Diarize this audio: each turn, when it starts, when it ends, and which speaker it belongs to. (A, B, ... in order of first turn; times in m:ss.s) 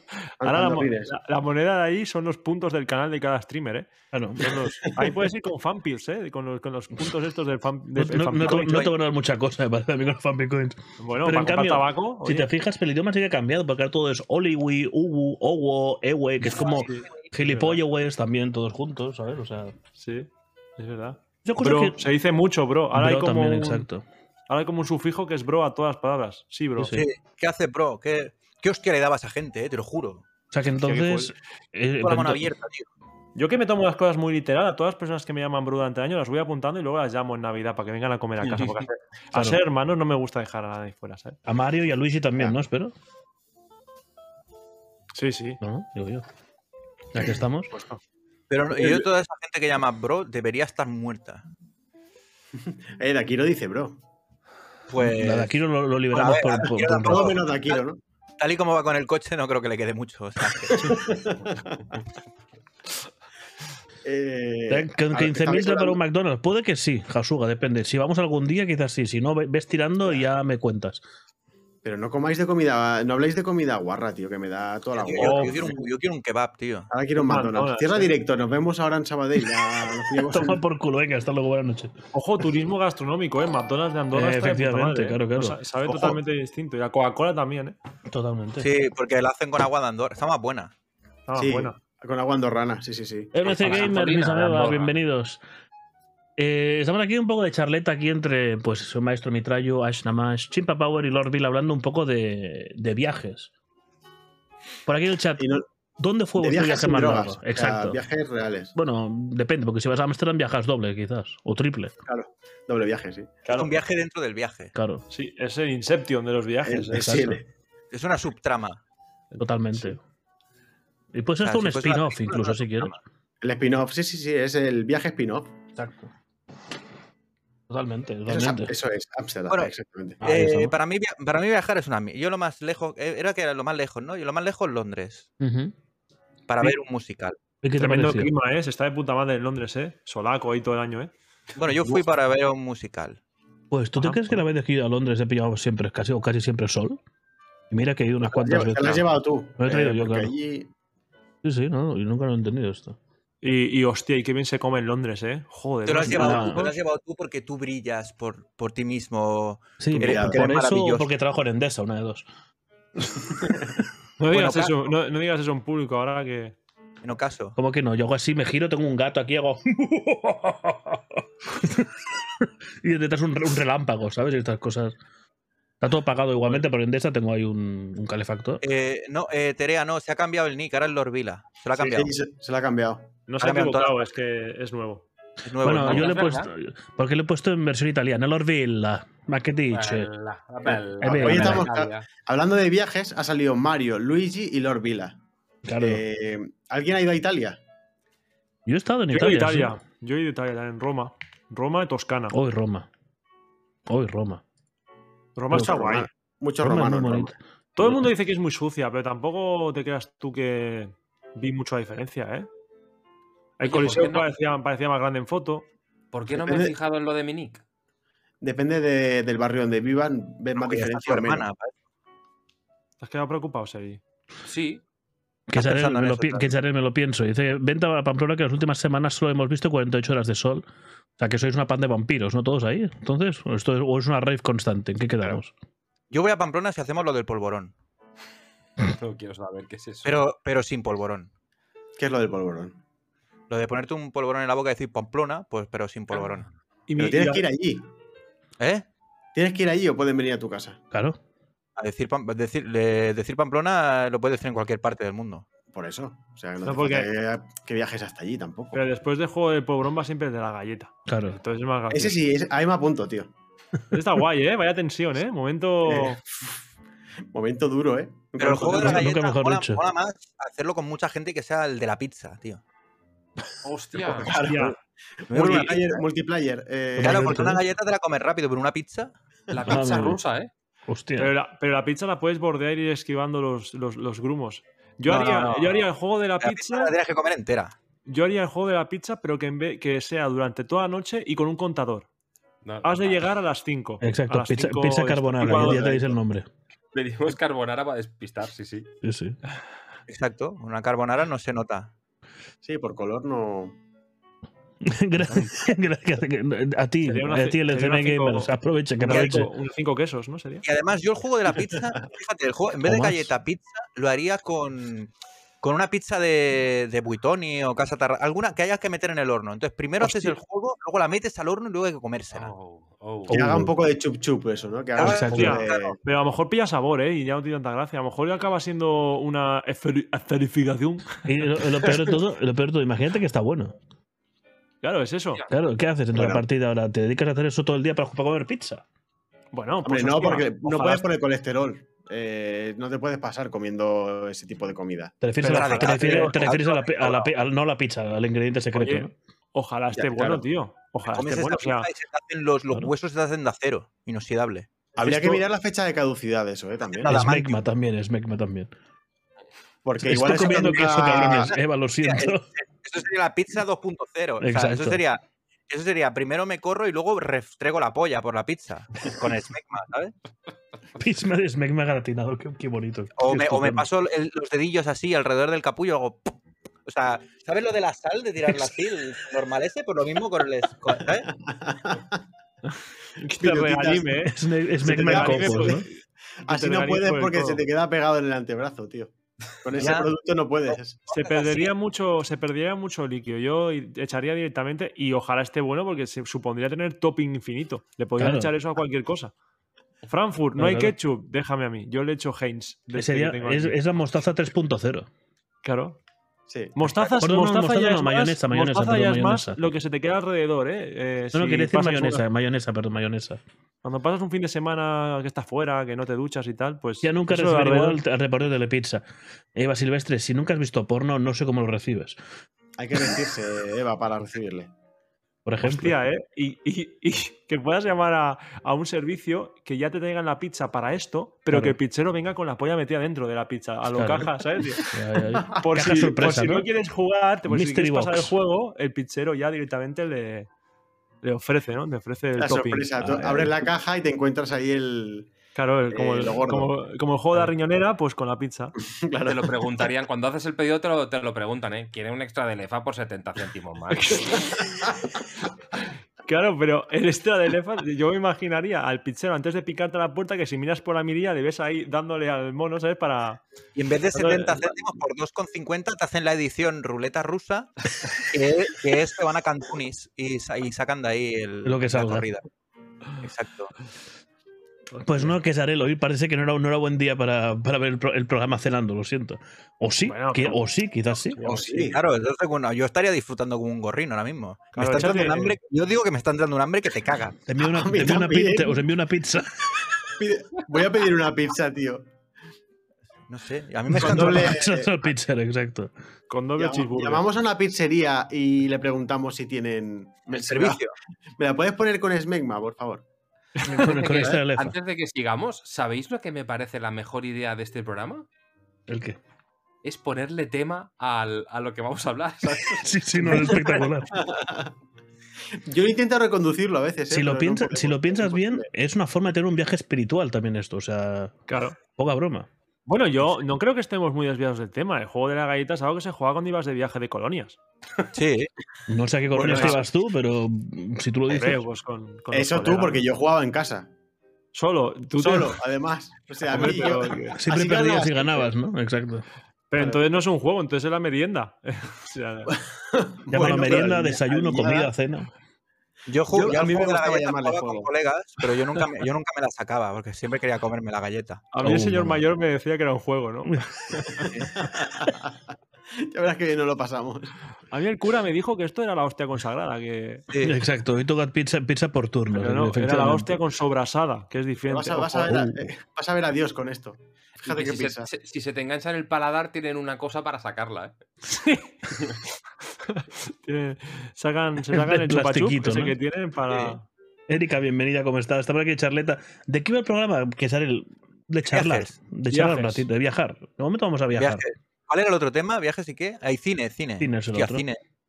0:00.4-0:01.1 A
0:00.4-0:08.9 B
0:04.1-0:04.6 C
0:04.8-0:05.2 A
0:08.0-0:19.7 C
0:08.4-0:09.0 D
0:11.0-0:12.5 B
0:16.5-0:17.8 B
0:20.0-0:23.9 B
0:21.4-0:22.1 C
0:22.9-0:24.0 C
0:24.5-0:26.9 B
0:26.8-0:27.1 C
0:26.9-0:30.3 D
0:30.5-0:32.5 C
0:30.8-0:31.3 B
0:32.0-0:32.9 D
0:33.4-0:41.4 B
0:39.3-0:39.6 C
0:41.5-0:42.9 C
0:45.2-0:45.6 B
0:45.6-0:46.3 C
0:47.1-0:47.7 C
0:48.5-0:51.4 D
0:48.7-0:49.1 A
0:52.6-0:54.0 A
0:54.9-0:55.6 D
0:55.0-0:57.4 C
0:56.1-0:57.8 D
0:57.0-0:58.0 A
0:58.4-1:01.2 D
1:00.7-1:01.8 A
1:04.0-1:06.0 A
1:04.7-1:11.0 C
1:11.8-1:15.8 A
1:15.0-1:16.9 D
1:15.2-1:15.6 B
1:16.9-1:20.6 A
1:17.2-1:18.1 B
1:20.3-1:22.0 C
1:22.1-1:27.8 B
1:24.1-1:25.6 C
1:25.9-1:26.2 A
1:28.1-1:28.7 C
1:28.6-1:30.7 D
1:31.3-1:31.8 B
1:31.4-1:33.3 A
1:33.3-1:35.4 C
1:33.5-1:34.9 E
1:36.4-1:43.5 C
1:44.9-1:48.0 C
1:45.4-1:45.6 A
1:46.4-1:48.7 A
1:48.8-1:51.9 C
1:52.1-1:53.4 A
1:53.5-1:53.7 B
1:53.5-1:54.7 D
1:54.7-1:55.0 C
1:55.1-1:57.1 B
1:56.6-1:57.4 A
1:56.9-1:57.4 C
1:57.9-1:58.8 D
1:59.3-1:59.9 B
1:59.4-2:00.0 C
2:01.1-2:03.0 C
2:01.4-2:03.0 D
2:03.4-2:05.6 A
2:05.8-2:06.1 C
2:07.7-2:08.7 C
2:08.3-2:10.2 A
2:09.5-2:15.3 D
2:10.2-2:10.8 C
2:15.4-2:15.7 C
2:16.5-2:17.4 D
2:17.6-2:18.3 C
2:17.8-2:21.1 B
2:21.6-2:23.2 D
2:23.7-2:27.0 C
2:24.0-2:24.4 B
2:27.7-2:30.3 C
2:28.2-2:30.7 A
2:31.4-2:33.0 C
2:33.4-2:36.8 B
2:35.8-2:41.1 D
2:36.0-2:36.7 C
2:39.8-2:42.3 C
2:39.9-2:40.4 A
2:43.4-2:43.6 A
2:44.2-2:46.6 B
2:44.3-2:44.9 D
2:47.0-2:47.6 D
2:47.6-2:55.0 C
2:55.8-2:58.6 C
2:58.6-3:02.1 D
3:01.8-3:03.1 A
3:03.3-3:05.0 B
3:03.4-3:04.0 D
3:05.4-3:06.2 D
3:05.6-3:10.1 C
3:05.8-3:06.5 E
3:09.7-3:12.1 E
3:10.6-3:15.2 A
3:11.0-3:11.7 C
3:15.6-3:16.0 C
3:15.8-3:17.6 A
3:18.7-3:19.8 C
3:19.1-3:22.4 B
3:22.3-3:22.9 C
3:23.9-3:24.4 C
3:25.4-3:26.1 B
3:25.5-3:27.4 A
3:26.6-3:28.0 C
3:27.8-3:32.5 B
3:33.6-3:35.7 B
3:33.6-3:34.3 E
3:36.1-3:37.6 E
3:36.3-3:36.8 A
3:38.4-3:41.5 A
3:40.6-3:41.7 D
3:43.0-3:44.0 B
3:44.4-3:44.8 E
3:45.5-3:50.6 C
3:45.6-3:46.5 D
3:51.2-3:55.5 C
3:56.1-3:57.7 D
3:58.8-4:00.2 E
4:00.0-4:01.3 D
4:02.0-4:02.8 A
4:03.5-4:06.5 D
4:06.9-4:07.5 B
4:07.0-4:07.9 A
4:08.6-4:08.9 D
4:09.4-4:10.8 A
4:10.9-4:11.2 C
4:11.8-4:15.5 D
4:15.7-4:18.8 A
4:16.6-4:17.1 B
4:18.7-4:22.2 B
4:21.1-4:21.4 C
4:21.9-4:23.3 A
4:23.9-4:26.2 B
4:25.9-4:26.5 A
4:27.3-4:29.1 A
4:28.4-4:32.6 D
4:28.7-4:29.8 C
4:33.6-4:34.4 E
4:34.0-4:37.5 A
4:34.4-4:34.8 B
4:35.3-4:36.0 D
4:37.0-4:37.6 C
4:37.0-4:39.1 D
4:39.5-4:40.5 E
4:39.7-4:40.2 C
4:40.9-4:41.3 C
4:41.2-4:46.9 B
4:45.1-4:45.8 D
4:46.4-4:47.8 D
4:48.1-4:52.1 B
4:52.6-4:53.2 E
4:52.8-4:56.1 B
4:54.0-4:56.5 C
4:55.6-4:56.0 A
4:56.9-4:58.9 E
4:59.0-4:59.4 C
5:00.1-5:01.9 D
5:02.6-5:03.8 A
5:04.8-5:09.5 C
5:07.0-5:10.6 B
5:09.1-5:09.3 D
5:10.6-5:15.1 D
5:12.8-5:13.3 C
5:15.6-5:22.5 D
5:20.0-5:20.3 B
5:22.3-5:23.4 E
5:23.3-5:23.7 C
5:23.3-5:26.0 A
5:25.0-5:26.0 D
5:25.0-5:25.6 C
5:25.3-5:31.2 B
5:31.3-5:33.8 C
5:34.8-5:35.4 B
5:35.5-5:38.8 C
5:36.1-5:36.4 A
5:39.5-5:41.0 B
5:39.8-5:45.2 A
5:45.2-5:49.1 C
5:45.4-5:46.4 B
5:45.4-5:47.3 D
5:48.8-5:51.9 B
5:49.9-5:50.4 A
5:51.1-5:54.7 D
5:55.0-5:57.2 A
5:55.0-5:55.4 B
5:57.0-5:57.6 D
5:57.1-5:58.7 C
5:59.8-6:01.6 A
6:00.0-6:02.5 C
6:02.0-6:10.1 D
6:04.4-6:05.0 C
6:11.0-6:13.9 C
6:13.2-6:16.4 D
6:16.9-6:21.3 D
6:21.4-6:22.2 A
6:23.2-6:26.0 B
6:23.4-6:24.2 A
6:24.3-6:25.9 C
6:24.8-6:25.9 A
6:26.4-6:31.0 A
6:26.5-6:27.6 B
6:29.8-6:30.1 D
6:30.7-6:31.7 D
6:31.1-6:39.3 B
6:38.2-6:38.5 C
6:40.1-6:43.8 B
6:40.6-6:41.0 C
6:42.9-6:45.1 C
6:45.6-6:46.0 B
6:46.5-6:47.1 A
6:46.8-6:52.2 B
6:47.2-6:49.6 C
6:51.3-6:53.4 C
6:53.8-6:58.0 B
6:57.0-6:59.0 C
6:59.6-7:02.2 C
7:02.8-7:04.7 A
7:05.4-7:05.9 C
7:05.6-7:14.9 B
7:11.5-7:11.8 C
7:13.9-7:14.3 C
7:14.8-7:16.7 C
7:15.4-7:15.8 A
7:15.6-7:20.5 B
7:17.4-7:18.3 C
7:21.2-7:22.9 B
7:22.4-7:25.3 A
7:23.0-7:23.5 C
7:25.6-7:28.8 B
7:25.9-7:26.7 A
7:29.0-7:29.8 A
7:29.2-7:34.6 E
7:33.9-7:34.9 B
7:36.2-7:43.4 B
7:43.8-7:52.5 D
7:44.1-7:44.8 B
7:51.6-7:52.3 C
7:53.2-7:53.7 D
7:55.0-8:01.4 C
8:00.0-8:00.6 B
8:01.3-8:01.9 B
8:01.4-8:02.0 A
8:01.8-8:07.4 D
8:04.8-8:05.6 B
8:07.5-8:09.9 C
8:07.6-8:08.8 A
8:10.0-8:12.1 A
8:13.3-8:14.6 D
8:13.9-8:15.9 C
8:14.0-8:15.0 A
8:16.3-8:17.2 B
8:16.6-8:23.0 A
8:20.3-8:20.9 D
8:23.7-8:24.8 C
8:23.7-8:28.3 E
8:28.9-8:29.2 C
8:29.8-8:33.8 E
8:32.7-8:34.2 C
8:34.1-8:34.7 A
8:35.6-8:38.7 A
8:37.1-8:41.4 C
8:41.5-8:41.8 B
8:42.0-8:42.5 C
8:42.9-8:47.6 B
8:48.1-8:48.5 D
8:48.9-8:51.6 C
8:49.3-8:49.8 A
8:49.4-8:49.8 B
8:51.3-8:53.0 B
8:52.3-8:53.9 A
8:54.5-8:55.6 B
8:55.2-8:58.5 A
8:56.4-8:57.4 B
8:57.4-8:59.2 C
8:59.7-9:02.6 B
8:59.8-9:00.0 A
9:02.9-9:04.9 A
9:03.3-9:05.3 C
9:06.1-9:11.5 D
9:06.3-9:07.9 A
9:11.5-9:14.3 B
9:11.6-9:12.2 C
9:14.2-9:15.4 A
9:16.0-9:17.4 A
9:17.7-9:20.3 B
9:20.3-9:20.6 D
9:20.4-9:23.4 C
9:22.3-9:25.4 B
9:24.6-9:28.1 A
9:25.3-9:25.7 C
9:27.4-9:30.9 E
9:31.4-9:31.6 B
9:31.9-9:32.2 E
9:32.9-9:36.9 B
9:34.7-9:35.9 C
9:37.3-9:44.4 C
9:41.5-9:41.9 D
9:42.3-9:42.8 B
9:44.2-9:47.8 D
9:47.0-9:47.6 C